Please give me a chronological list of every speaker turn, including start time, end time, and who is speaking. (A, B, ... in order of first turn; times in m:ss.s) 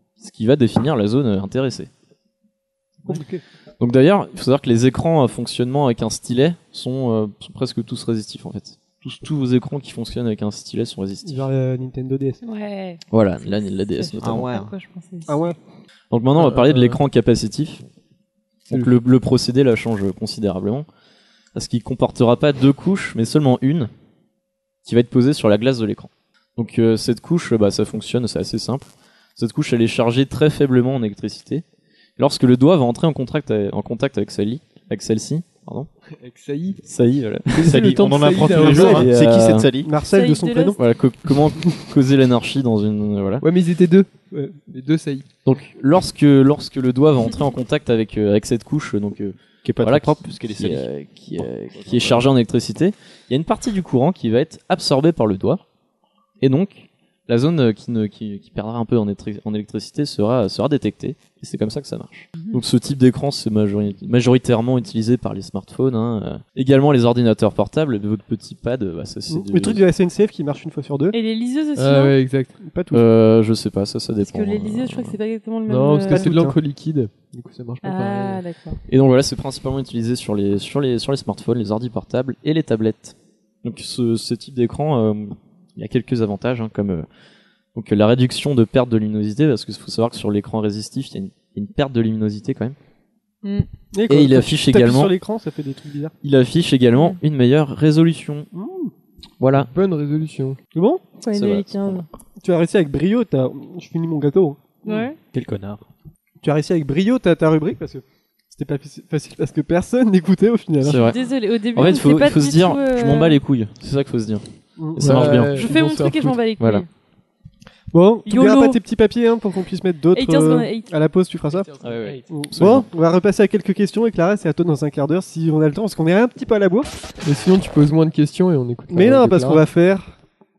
0:00.2-0:01.9 A
0:03.0-0:03.4 B
0:03.8-0:11.5 A
0:11.2-0:12.4 B
0:12.4-0:15.4 C
0:13.1-0:14.5 A
0:14.2-0:14.7 D
0:15.3-0:15.6 B
0:16.1-0:17.8 A
0:16.4-0:17.0 E
0:18.7-0:20.8 A
0:18.7-0:19.0 E
0:21.5-0:23.9 A
0:24.8-0:31.6 A
0:32.2-0:35.9 A
0:36.2-0:36.8 E
0:36.8-0:37.9 A
0:37.5-0:39.1 E
0:37.6-0:39.9 D
0:38.5-0:39.1 B
0:38.7-0:39.7 A
0:39.8-0:40.8 B
0:40.1-0:40.8 C
0:40.8-0:43.4 A
0:43.4-0:44.1 E
0:44.7-0:45.3 E
0:45.4-0:55.6 A
0:49.6-0:50.8 D
0:51.7-0:52.3 D
0:56.4-1:09.8 A
1:09.3-1:11.1 B
1:11.1-1:12.2 C
1:11.8-1:12.5 E
1:12.6-1:13.0 B
1:12.9-1:15.2 A
1:14.2-1:16.3 C
1:15.7-1:18.4 E
1:16.1-1:16.6 B
1:17.8-1:18.8 C
1:18.9-1:27.1 A
1:27.7-1:32.8 A
1:33.9-1:36.1 B
1:34.1-1:35.1 A
1:36.2-1:38.5 A
1:38.5-1:38.9 B
1:39.4-1:39.7 A
1:39.5-1:40.6 E
1:40.7-1:41.0 B
1:41.2-1:42.1 C
1:41.3-1:42.0 A
1:42.4-1:45.1 B
1:44.8-1:45.2 C
1:45.3-1:45.8 D
1:46.4-1:51.1 B
1:50.8-1:51.2 A
1:51.1-1:53.4 C
1:51.7-1:54.4 A
1:54.8-1:55.2 B
1:54.9-1:55.7 A
1:55.0-1:56.4 E
1:55.6-1:56.9 C
1:56.6-1:56.8 A
1:57.9-2:01.7 B
1:58.2-1:58.8 C
2:00.1-2:00.9 C
2:01.5-2:02.3 E
2:01.8-2:02.9 A
2:02.3-2:06.9 B
2:07.2-2:09.6 E
2:08.9-2:10.1 B